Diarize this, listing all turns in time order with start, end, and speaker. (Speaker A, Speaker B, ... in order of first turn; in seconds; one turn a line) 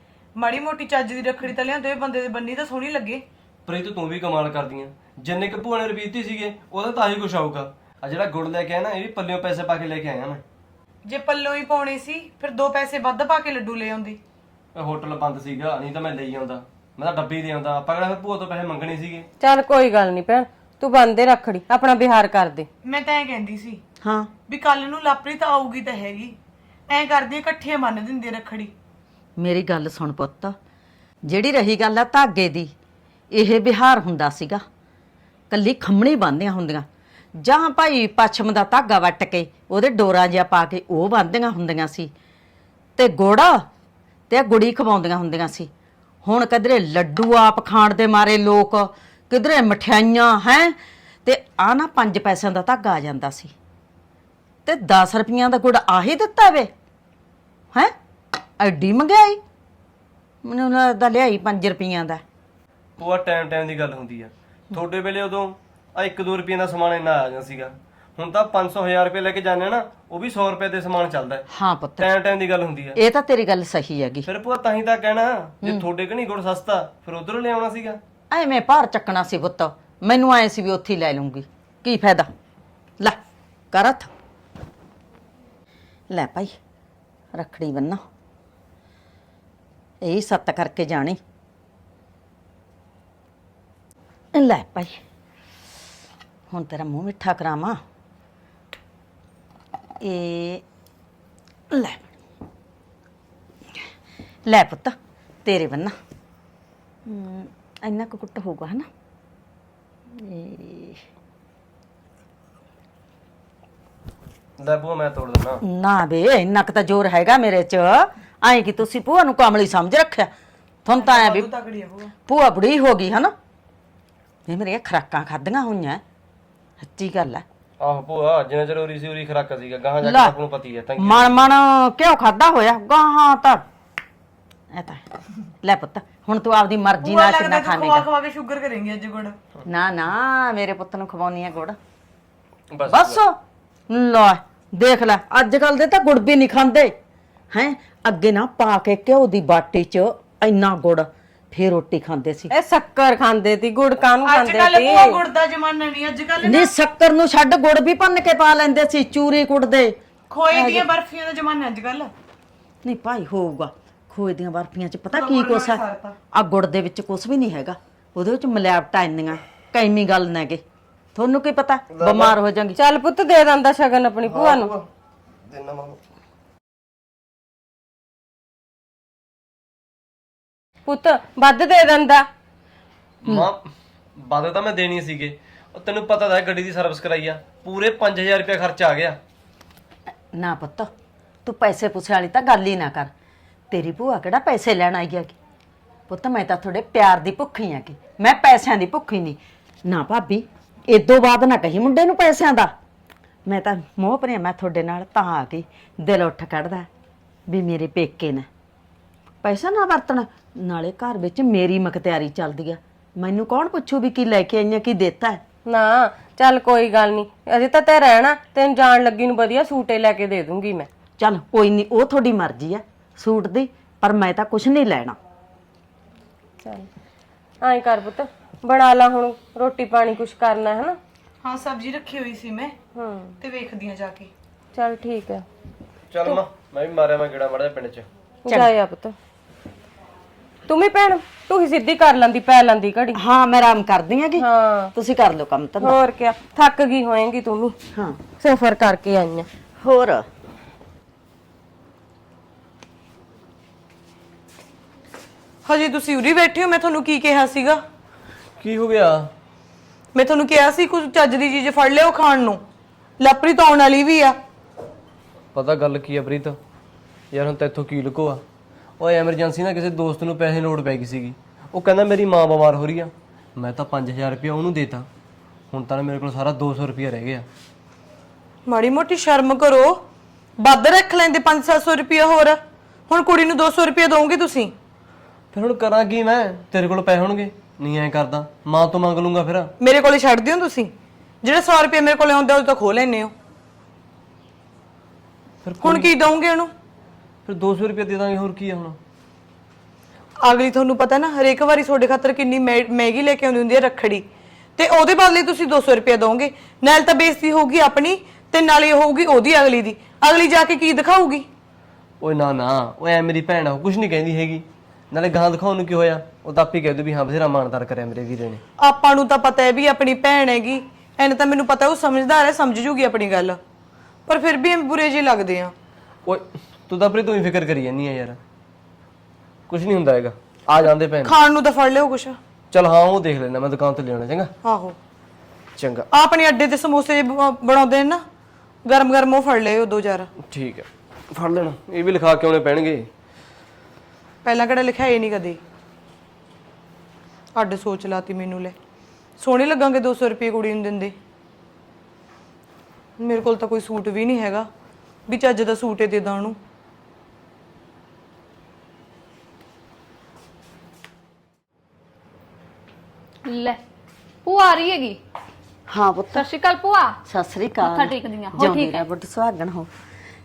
Speaker A: 0.4-3.2
Speaker B: 3.7-10.4
Speaker A: 11.1-14.2
Speaker B: 14.8-19.3
Speaker C: 19.4-22.7
Speaker A: 22.8-23.8
Speaker D: 24.0-24.3
Speaker A: 24.5-26.4
Speaker A: 26.9-28.7
Speaker D: 29.4-30.6
Speaker D: 31.2-32.7
Speaker D: 33.3-34.6
Speaker D: 35.5-36.9
Speaker D: 37.4-42.1
Speaker D: 43.0-43.7
Speaker D: 44.3-45.7
Speaker D: 46.2-53.5
Speaker D: 54.7-56.7
Speaker D: 58.6-59.4
Speaker D: 60.4-62.2
Speaker B: 63.0-71.5
Speaker D: 71.5-72.1
Speaker B: 72.0-73.0
Speaker D: 73.0-74.3
Speaker B: 74.3-78.0
Speaker D: 78.3-82.3
Speaker D: 83.7-84.1
Speaker D: 86.1-86.6
Speaker D: 87.3-88.0
Speaker D: 90.0-91.2
Speaker D: 94.3-95.0
Speaker D: 96.5-97.8
Speaker D: 100.0-100.6
Speaker D: 101.7-102.2
Speaker D: 104.5-106.0
Speaker D: 107.1-108.9
Speaker D: 110.1-111.0
Speaker B: 114.6-115.6
Speaker D: 115.6-120.3
Speaker D: 120.8-121.5
Speaker A: 120.9-122.1
Speaker D: 122.3-123.3
Speaker D: 124.5-126.0
Speaker D: 126.8-127.5
Speaker B: 127.8-131.5
Speaker D: 130.0-130.3
Speaker D: 131.0-133.7
Speaker D: 134.7-135.1
Speaker D: 135.6-138.1
Speaker A: 137.0-139.4
Speaker D: 139.7-141.8
Speaker B: 142.7-143.2
Speaker D: 142.9-143.4
Speaker D: 143.9-146.9
Speaker D: 147.5-152.5
Speaker C: 152.5-155.2
Speaker A: 154.2-156.7
Speaker D: 156.4-160.0
Speaker A: 160.3-162.1
Speaker D: 160.5-160.9
Speaker D: 162.8-170.6
Speaker A: 165.1-166.2
Speaker D: 171.2-172.8
Speaker B: 171.9-172.4
Speaker C: 172.8-174.7
Speaker B: 174.3-174.9
Speaker B: 175.5-176.0
Speaker C: 180.9-182.3
Speaker B: 183.2-183.6
Speaker B: 184.2-189.2
Speaker D: 190.3-190.9
Speaker D: 191.4-193.1
Speaker D: 193.7-195.3
Speaker D: 196.1-202.7
Speaker D: 203.5-206.9
Speaker D: 207.5-208.5
Speaker D: 209.4-215.4
Speaker C: 215.7-220.9
Speaker D: 221.2-225.2
Speaker C: 226.6-226.9
Speaker C: 227.6-231.0
Speaker A: 231.4-232.8
Speaker C: 232.9-233.4
Speaker A: 233.4-234.3
Speaker C: 234.7-235.4
Speaker B: 236.1-238.1
Speaker C: 238.4-239.2
Speaker C: 240.7-243.2
Speaker D: 243.1-246.0
Speaker C: 244.4-244.9
Speaker C: 245.8-247.8
Speaker D: 247.9-248.2
Speaker C: 248.4-249.5
Speaker D: 249.8-250.3
Speaker A: 255.7-257.8
Speaker B: 258.6-259.3
Speaker A: 260.1-262.6
Speaker A: 263.2-264.4
Speaker B: 265.6-266.6
Speaker B: 267.3-268.4
Speaker B: 269.0-275.1
Speaker B: 275.7-277.5
Speaker A: 278.7-280.0
Speaker A: 280.6-284.7
Speaker B: 285.5-289.7
Speaker A: 289.8-293.3
Speaker B: 295.6-296.1
Speaker A: 295.8-296.7
Speaker B: 297.5-299.0
Speaker A: 300.4-304.3
Speaker A: 304.8-311.5
Speaker B: 312.2-318.6
Speaker A: 318.8-323.6
Speaker A: 324.3-325.7
Speaker B: 326.3-328.4
Speaker B: 329.7-331.4
Speaker A: 331.2-332.4
Speaker B: 332.7-334.5
Speaker A: 334.6-335.0
Speaker B: 335.8-336.1
Speaker A: 336.1-338.2
Speaker A: 338.9-340.3
Speaker B: 340.4-343.1
Speaker A: 344.4-345.6
Speaker A: 347.6-348.8
Speaker A: 349.4-351.1
Speaker A: 353.2-354.7
Speaker A: 355.3-356.6
Speaker E: 363.5-363.8
Speaker E: 364.4-365.2
Speaker D: 365.9-366.5
Speaker E: 366.4-367.2
Speaker D: 367.2-369.9
Speaker E: 367.9-369.0